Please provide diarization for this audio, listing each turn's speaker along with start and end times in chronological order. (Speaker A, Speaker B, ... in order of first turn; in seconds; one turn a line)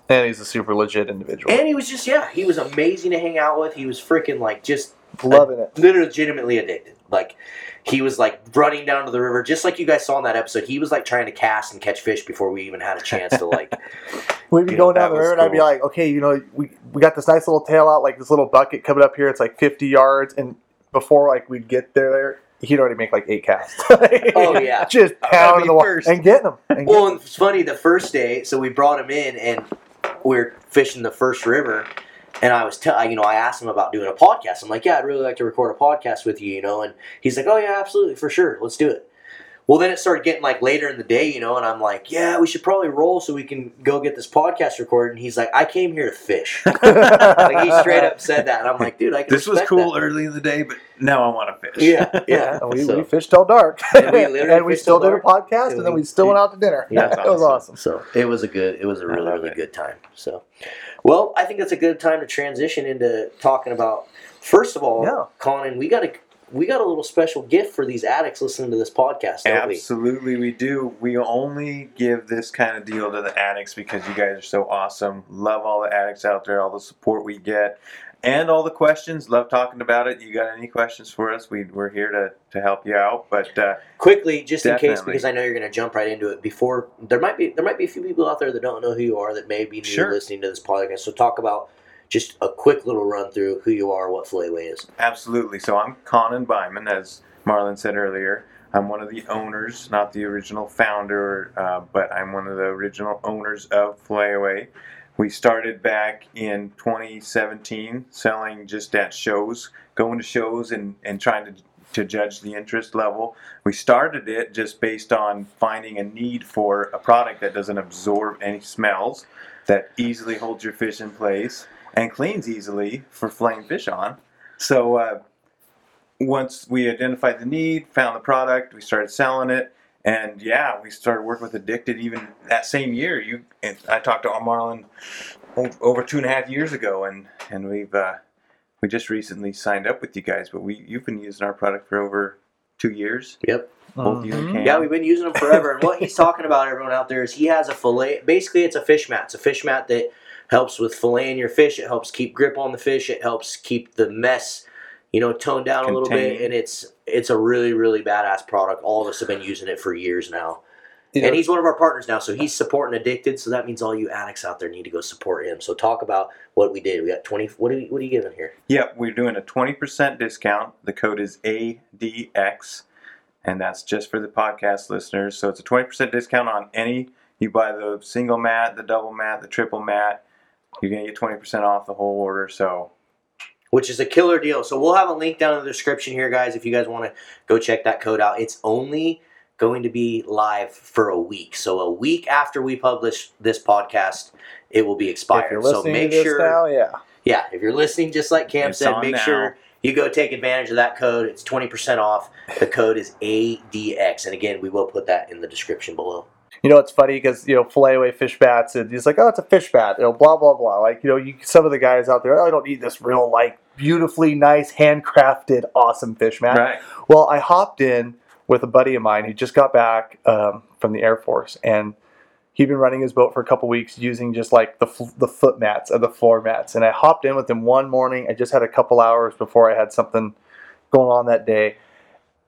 Speaker A: 0.1-1.6
Speaker B: 1.5-13.8
Speaker A: 5.2-5.7
Speaker C: 13.3-13.6
Speaker A: 14.5-27.2
Speaker C: 14.7-15.7
Speaker B: 24.3-24.9
Speaker C: 25.2-26.2
Speaker B: 26.8-29.7
Speaker B: 30.2-31.9
Speaker B: 32.4-39.0
Speaker B: 39.7-49.9
Speaker C: 46.7-47.9
Speaker A: 46.8-48.1
Speaker C: 49.3-52.4
Speaker B: 51.8-53.1
Speaker A: 52.3-57.8
Speaker B: 53.9-56.4
Speaker B: 56.9-57.2
Speaker C: 56.9-57.6
Speaker B: 57.7-60.4
Speaker C: 59.1-59.6
Speaker B: 61.0-69.8
Speaker A: 65.0-65.3
Speaker C: 69.4-83.8
Speaker B: 84.0-94.9
Speaker C: 84.6-85.2
Speaker C: 89.8-90.2
Speaker C: 95.0-125.2
Speaker C: 126.2-134.8
Speaker C: 135.6-138.2
Speaker C: 138.8-143.4
Speaker B: 143.4-143.7
Speaker A: 143.9-144.7
Speaker C: 144.0-144.9
Speaker B: 144.6-160.6
Speaker C: 155.8-156.5
Speaker A: 161.1-161.4
Speaker B: 161.2-168.5
Speaker C: 168.7-172.8
Speaker C: 173.4-180.2
Speaker C: 180.8-182.9
Speaker B: 183.7-196.6
Speaker A: 195.3-197.0
Speaker B: 197.2-206.3
Speaker C: 198.6-199.5
Speaker A: 206.6-221.9
Speaker C: 216.5-216.8
Speaker A: 222.5-230.3
Speaker A: 230.9-231.8